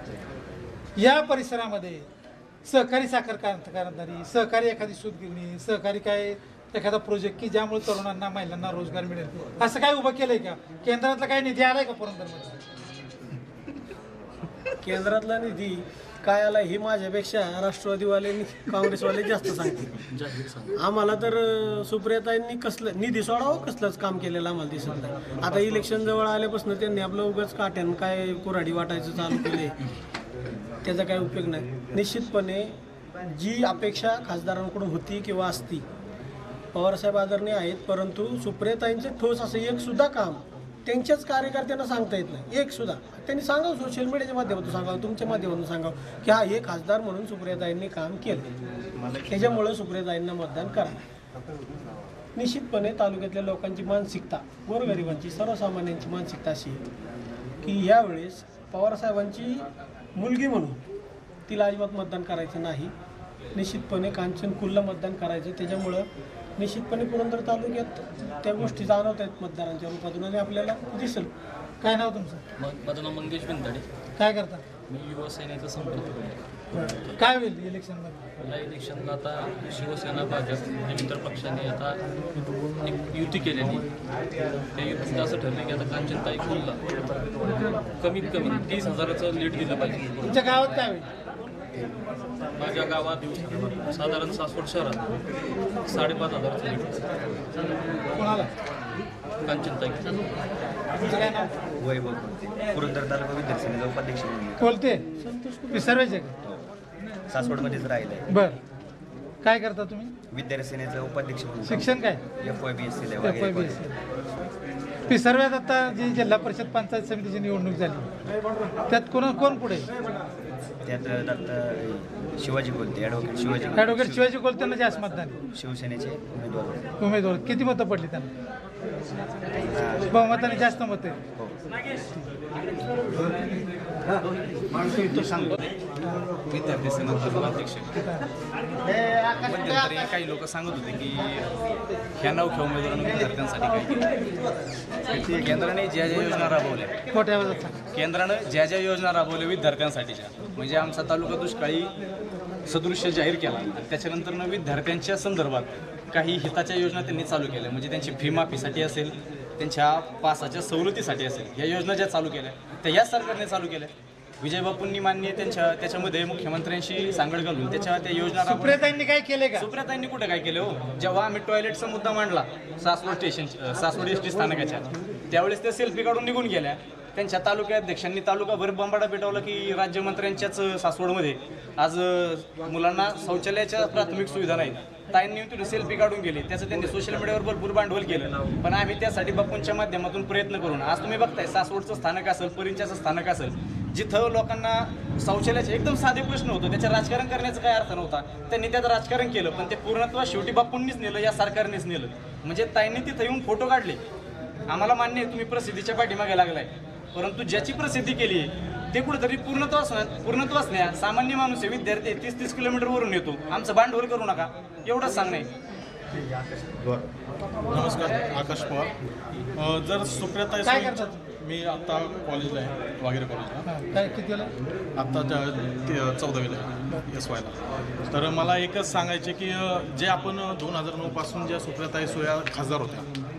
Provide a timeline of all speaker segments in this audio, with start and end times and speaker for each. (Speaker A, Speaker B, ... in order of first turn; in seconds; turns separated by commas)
Speaker A: 1.0-2.0, Speaker A: 2.6-12.6, Speaker B: 14.8-20.0, Speaker B: 20.7-29.8, Speaker B: 30.8-32.7, Speaker B: 33.3-35.8, Speaker B: 36.7-48.5, Speaker C: 48.9-49.6, Speaker B: 49.3-51.0, Speaker B: 52.4-56.8, Speaker B: 57.6-60.8, Speaker B: 61.5-62.9, Speaker B: 63.5-71.3, Speaker A: 71.8-72.4, Speaker D: 72.6-73.8, Speaker A: 74.2-74.6, Speaker D: 74.9-77.1, Speaker A: 77.2-78.2, Speaker D: 78.4-82.0, Speaker D: 82.8-83.8, Speaker D: 84.7-86.8, Speaker D: 88.0-90.8, Speaker A: 90.2-91.0, Speaker D: 92.6-95.1, Speaker D: 95.8-97.2, Speaker A: 98.2-98.5, Speaker D: 99.5-100.2, Speaker A: 101.0-101.5, Speaker C: 101.8-104.6, Speaker A: 104.6-105.0, Speaker B: 105.2-106.2, Speaker A: 105.7-106.3, Speaker C: 107.3-108.2, Speaker A: 108.3-108.6, Speaker A: 109.4-110.1, Speaker C: 110.3-111.9, Speaker A: 111.6-112.2, Speaker C: 112.5-113.8, Speaker A: 113.2-113.9, Speaker A: 115.1-118.1, Speaker A: 118.9-119.9, Speaker C: 120.8-124.2, Speaker A: 123.7-125.3, Speaker C: 125.5-126.8, Speaker A: 127.0-128.3, Speaker C: 129.7-130.2, Speaker A: 130.0-131.2, Speaker C: 134.8-135.6, Speaker E: 136.5-137.9, Speaker E: 139.2-141.5, Speaker E: 142.2-144.1, Speaker E: 145.1-146.9, Speaker C: 145.1-145.6, Speaker A: 147.1-147.7, Speaker E: 147.9-151.9, Speaker E: 152.7-168.8, Speaker A: 168.4-169.7, Speaker E: 169.5-204.0, Speaker E: 204.7-215.5, Speaker F: 217.7-218.9, Speaker F: 219.6-223.7, Speaker A: 220.6-221.2, Speaker A: 223.7-224.5, Speaker F: 224.9-227.5, Speaker F: 228.1-233.1